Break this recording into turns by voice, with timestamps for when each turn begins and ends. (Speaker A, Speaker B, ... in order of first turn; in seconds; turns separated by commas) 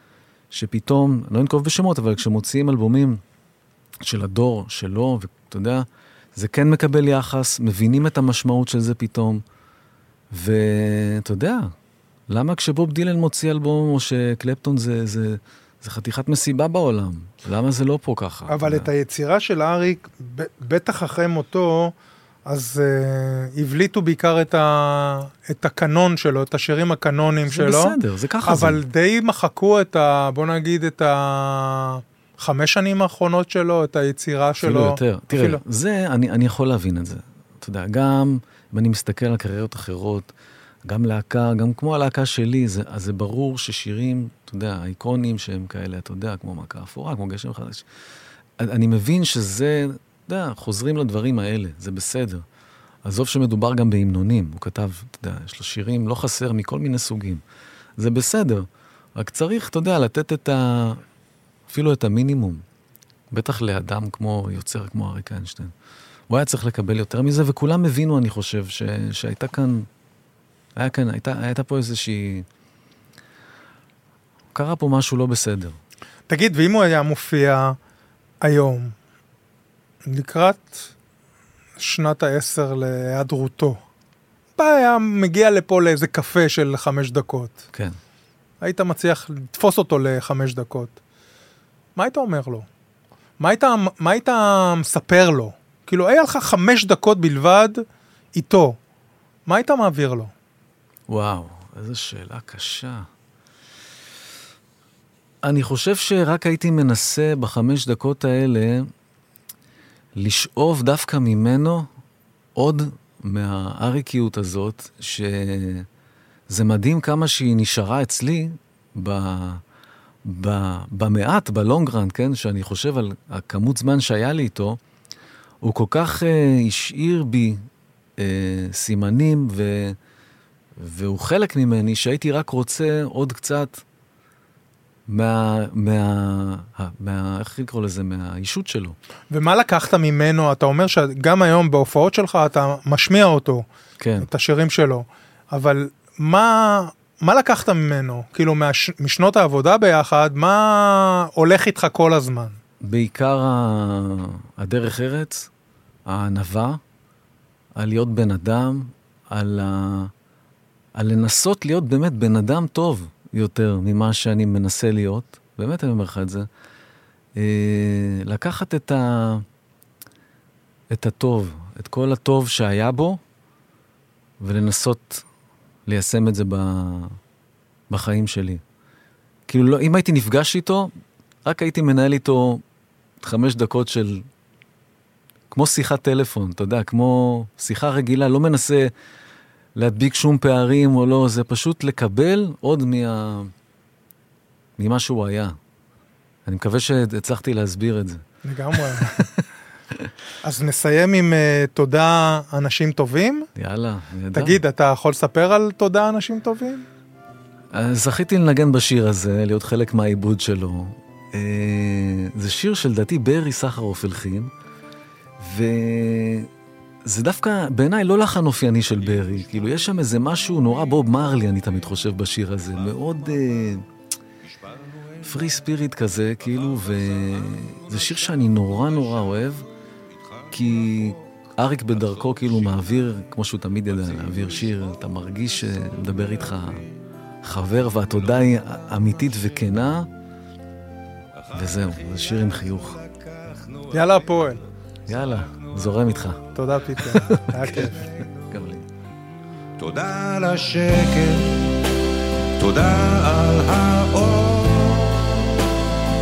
Speaker A: 0.5-3.2, Speaker A: 4.0-9.4, Speaker A: 10.3-11.7, Speaker A: 12.3-18.9, Speaker B: 18.5-21.9, Speaker B: 22.5-35.6, Speaker A: 27.5-28.8, Speaker A: 34.6-40.3, Speaker A: 40.8-47.9, Speaker A: 48.6-52.4, Speaker A: 53.0-57.4, Speaker A: 58.0-61.0, Speaker A: 61.7-62.6, Speaker A: 63.3-65.7, Speaker A: 66.3-69.9, Speaker A: 70.8-72.5, Speaker A: 74.5-75.8, Speaker B: 76.3-77.8, Speaker B: 78.4-78.9, Speaker B: 80.0-80.9, Speaker B: 81.8-83.8, Speaker B: 84.5-87.6, Speaker B: 88.6-91.0, Speaker B: 92.0-92.7, Speaker B: 93.4-97.8, Speaker B: 98.3-98.8, Speaker B: 99.5-100.3, Speaker A: 101.1-103.1, Speaker A: 105.4-108.9, Speaker A: 110.2-111.9, Speaker A: 112.5-115.9, Speaker A: 116.5-119.6, Speaker A: 120.2-124.8, Speaker A: 125.6-127.7, Speaker A: 128.2-130.0, Speaker A: 130.8-133.8, Speaker A: 135.1-139.0, Speaker B: 139.3-143.7, Speaker A: 144.0-144.3, Speaker B: 144.2-152.6, Speaker A: 152.8-155.5, Speaker A: 156.1-156.8, Speaker A: 157.7-160.1, Speaker A: 160.9-166.5, Speaker A: 167.3-169.4, Speaker A: 170.9-173.2, Speaker A: 174.4-175.2, Speaker A: 175.8-177.2, Speaker A: 177.9-178.6, Speaker A: 179.5-180.9, Speaker A: 181.4-182.6, Speaker A: 183.2-184.2, Speaker A: 185.5-188.9, Speaker A: 189.8-193.5, Speaker A: 194.8-195.6, Speaker A: 196.4-198.2, Speaker B: 198.4-199.3, Speaker A: 198.8-199.4, Speaker B: 200.4-203.5, Speaker A: 203.5-204.6, Speaker B: 204.3-206.8, Speaker A: 207.7-214.5, Speaker A: 215.4-216.5, Speaker A: 217.0-223.8, Speaker C: 218.9-221.9, Speaker C: 222.5-223.8, Speaker C: 224.4-233.2, Speaker A: 225.2-229.7, Speaker A: 230.5-236.8, Speaker C: 233.8-236.9, Speaker A: 237.4-240.1, Speaker C: 238.0-239.8, Speaker C: 241.3-246.2, Speaker A: 241.5-243.0, Speaker B: 243.9-244.6, Speaker A: 245.1-246.4, Speaker B: 246.5-248.0, Speaker A: 246.9-248.8, Speaker C: 247.1-248.6, Speaker C: 249.8-251.8, Speaker C: 252.6-255.6